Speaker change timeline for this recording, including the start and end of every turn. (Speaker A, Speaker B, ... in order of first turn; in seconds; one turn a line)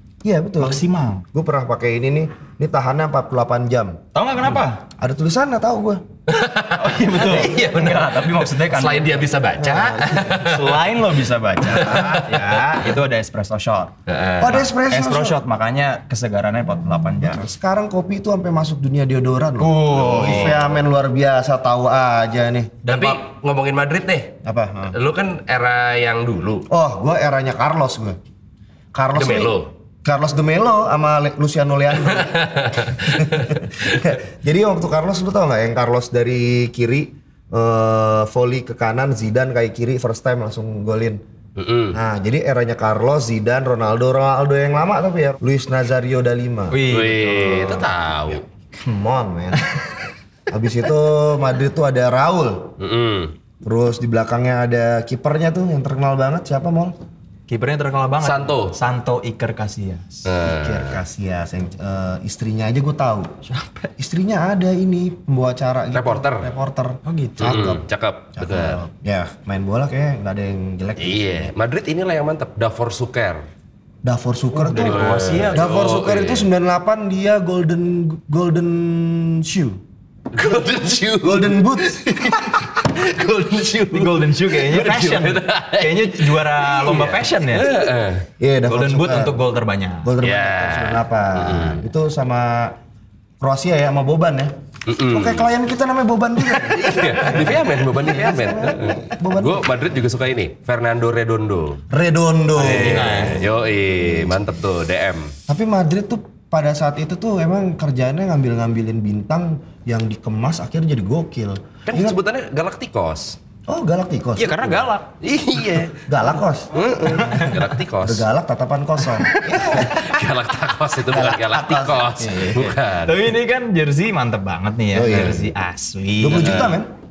Speaker A: 0.2-0.8
Speaker B: 0.6-1.2
Speaker A: 1.3-4.0
Speaker B: 4.1-4.8
Speaker A: 5.0-6.0
Speaker C: 6.3-10.9
Speaker B: 6.7-9.3
Speaker A: 9.6-10.3
Speaker B: 10.1-13.9
Speaker A: 11.7-12.9
Speaker C: 11.7-12.6
Speaker C: 14.1-14.7
Speaker A: 14.4-15.4
Speaker B: 14.8-17.5
Speaker A: 17.2-23.2
Speaker B: 19.6-20.7
Speaker C: 20.0-20.6
Speaker C: 22.8-24.3
Speaker A: 24.4-24.9
Speaker C: 24.9-26.7
Speaker A: 26.7-28.2
Speaker A: 28.9-29.5
Speaker C: 29.1-29.7
Speaker A: 30.0-41.2
Speaker C: 32.0-34.2
Speaker C: 41.5-42.0
Speaker A: 41.9-46.8
Speaker B: 46.7-47.9
Speaker C: 46.9-48.4
Speaker A: 48.7-49.8
Speaker A: 50.5-52.8
Speaker C: 52.8-53.3
Speaker A: 53.6-56.9
Speaker B: 57.5-60.3
Speaker C: 58.2-58.8
Speaker C: 60.2-61.0
Speaker A: 60.4-63.3
Speaker B: 63.4-63.9
Speaker A: 64.0-67.8
Speaker C: 65.9-66.5
Speaker B: 67.0-67.6
Speaker C: 67.4-68.8
Speaker A: 68.4-71.5
Speaker C: 71.0-73.4
Speaker A: 74.0-79.8
Speaker B: 74.5-75.7
Speaker C: 74.8-76.5
Speaker C: 80.3-88.3
Speaker A: 81.2-83.0
Speaker B: 83.9-87.8
Speaker A: 88.4-89.4
Speaker B: 88.7-90.1
Speaker A: 90.0-92.8
Speaker C: 90.2-91.8
Speaker A: 93.4-99.7
Speaker C: 94.9-95.5
Speaker C: 96.5-101.8
Speaker B: 97.2-98.8
Speaker A: 101.9-104.4
Speaker B: 102.5-103.5
Speaker C: 102.6-105.3
Speaker A: 105.5-112.2
Speaker C: 111.8-113.4
Speaker A: 113.7-114.8
Speaker B: 114.4-115.1
Speaker C: 115.2-116.0
Speaker A: 116.1-117.4
Speaker C: 116.7-118.2
Speaker B: 117.1-117.7
Speaker A: 118.0-120.2
Speaker B: 119.1-119.9
Speaker C: 119.5-123.3
Speaker A: 121.1-122.8
Speaker B: 123.0-126.8
Speaker A: 124.9-125.4
Speaker C: 125.1-125.4
Speaker A: 126.2-126.9
Speaker C: 126.3-126.8